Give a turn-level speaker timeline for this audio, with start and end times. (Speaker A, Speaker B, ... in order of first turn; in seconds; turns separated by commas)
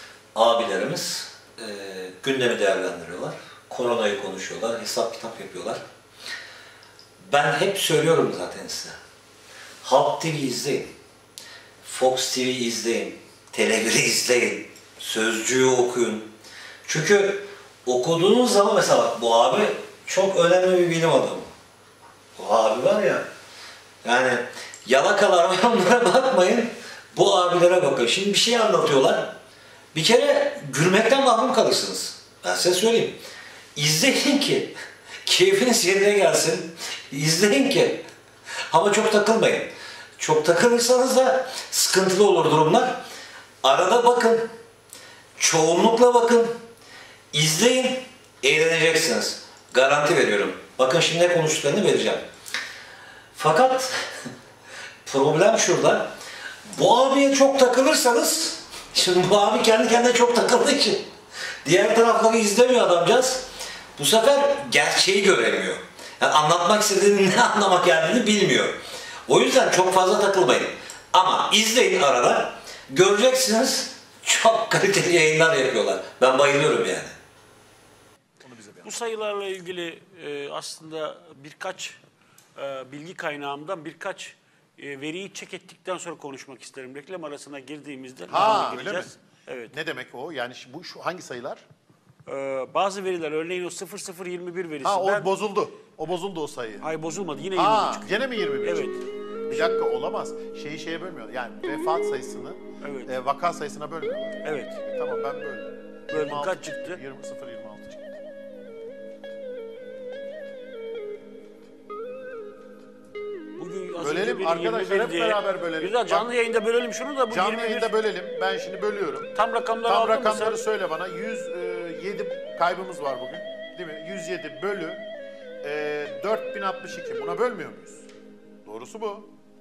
Speaker A: 0.3-5.8, Speaker A: 7.2-8.9, Speaker A: 9.8-10.9, Speaker A: 11.8-16.3, Speaker A: 16.8-21.5, Speaker A: 22.4-23.2, Speaker A: 24.0-29.3, Speaker A: 29.9-33.2, Speaker A: 33.8-34.7, Speaker A: 35.2-38.0, Speaker A: 38.7-43.0, Speaker A: 43.6-44.5, Speaker A: 45.4-46.5, Speaker A: 47.3-52.2, Speaker A: 53.3-53.9, Speaker A: 55.0-56.1, Speaker A: 56.7-61.0, Speaker A: 61.6-63.4, Speaker A: 64.0-68.8, Speaker A: 69.3-77.1, Speaker B: 78.4-78.9, Speaker C: 78.8-82.0, Speaker C: 82.6-89.7, Speaker B: 88.3-89.1, Speaker B: 89.7-91.6, Speaker C: 92.3-95.3, Speaker B: 94.8-96.9, Speaker C: 96.8-99.8, Speaker B: 97.5-98.9, Speaker B: 99.5-108.2, Speaker C: 102.8-103.1, Speaker C: 104.4-104.8, Speaker C: 106.1-107.0, Speaker C: 113.6-117.9, Speaker B: 114.0-116.3, Speaker B: 117.3-119.3, Speaker C: 119.3-120.6, Speaker B: 119.8-125.0, Speaker B: 125.6-128.1, Speaker B: 128.6-129.3